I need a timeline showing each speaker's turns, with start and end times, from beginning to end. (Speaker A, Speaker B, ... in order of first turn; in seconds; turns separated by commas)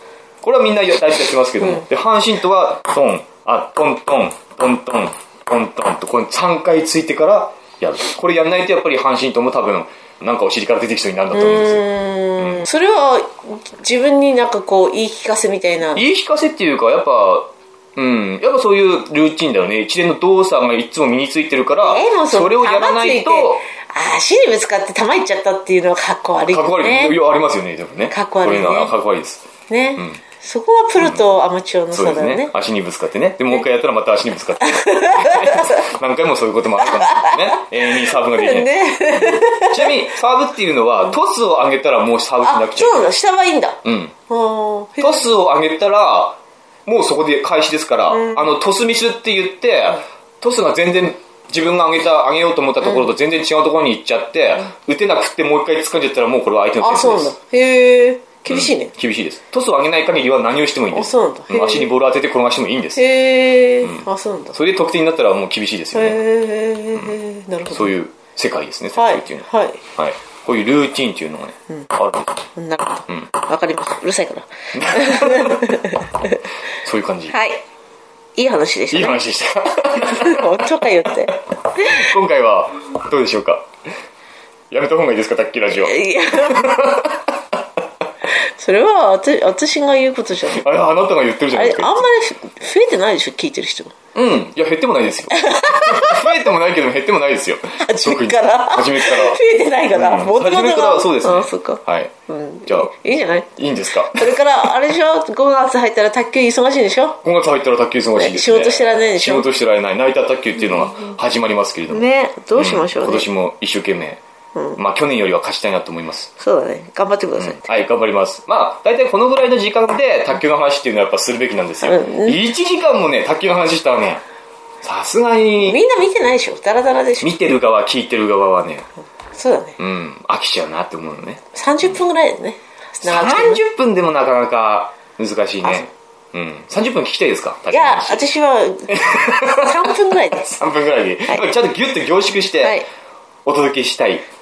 Speaker A: 0.4-11.8, Speaker B: 1.6-1.8, Speaker B: 11.3-16.1, Speaker A: 12.4-12.7, Speaker A: 15.9-23.6, Speaker B: 21.8-27.2, Speaker A: 26.5-29.4, Speaker B: 28.1-28.9, Speaker B: 29.7-32.5, Speaker A: 31.0-31.3, Speaker A: 31.9-43.1, Speaker B: 34.6-35.8, Speaker B: 36.8-39.9, Speaker B: 42.4-45.3, Speaker A: 43.8-44.1, Speaker A: 45.0-57.3, Speaker B: 48.1-48.5, Speaker B: 56.8-58.9, Speaker A: 58.5-63.0, Speaker B: 60.9-61.9, Speaker B: 63.0-64.5, Speaker A: 63.8-66.2, Speaker B: 65.9-68.0, Speaker A: 67.7-72.4, Speaker B: 69.0-69.8, Speaker B: 72.5-76.4, Speaker A: 74.7-75.8, Speaker A: 76.8-77.3, Speaker B: 77.3-77.6, Speaker B: 78.3-79.2, Speaker A: 78.9-80.5, Speaker B: 80.0-82.1, Speaker A: 81.8-83.7, Speaker A: 84.7-87.1, Speaker B: 85.8-87.0, Speaker B: 88.4-90.6, Speaker A: 90.4-92.0, Speaker B: 91.5-93.9, Speaker A: 94.1-99.4, Speaker B: 95.3-96.3, Speaker B: 97.8-107.2, Speaker A: 99.9-102.1, Speaker A: 102.7-102.9, Speaker A: 103.6-104.3, Speaker A: 107.2-114.2, Speaker B: 108.2-109.5, Speaker B: 111.9-113.3, Speaker A: 114.8-116.3, Speaker B: 116.4-117.6, Speaker A: 117.3-124.2, Speaker B: 121.8-122.4, Speaker A: 124.8-125.8, Speaker B: 125.6-127.3, Speaker A: 127.2-128.8, Speaker B: 129.3-129.8, Speaker A: 129.8-131.9, Speaker B: 131.5-133.6, Speaker A: 133.0-138.3, Speaker B: 137.7-140.5, Speaker A: 138.9-142.8, Speaker A: 143.4-144.2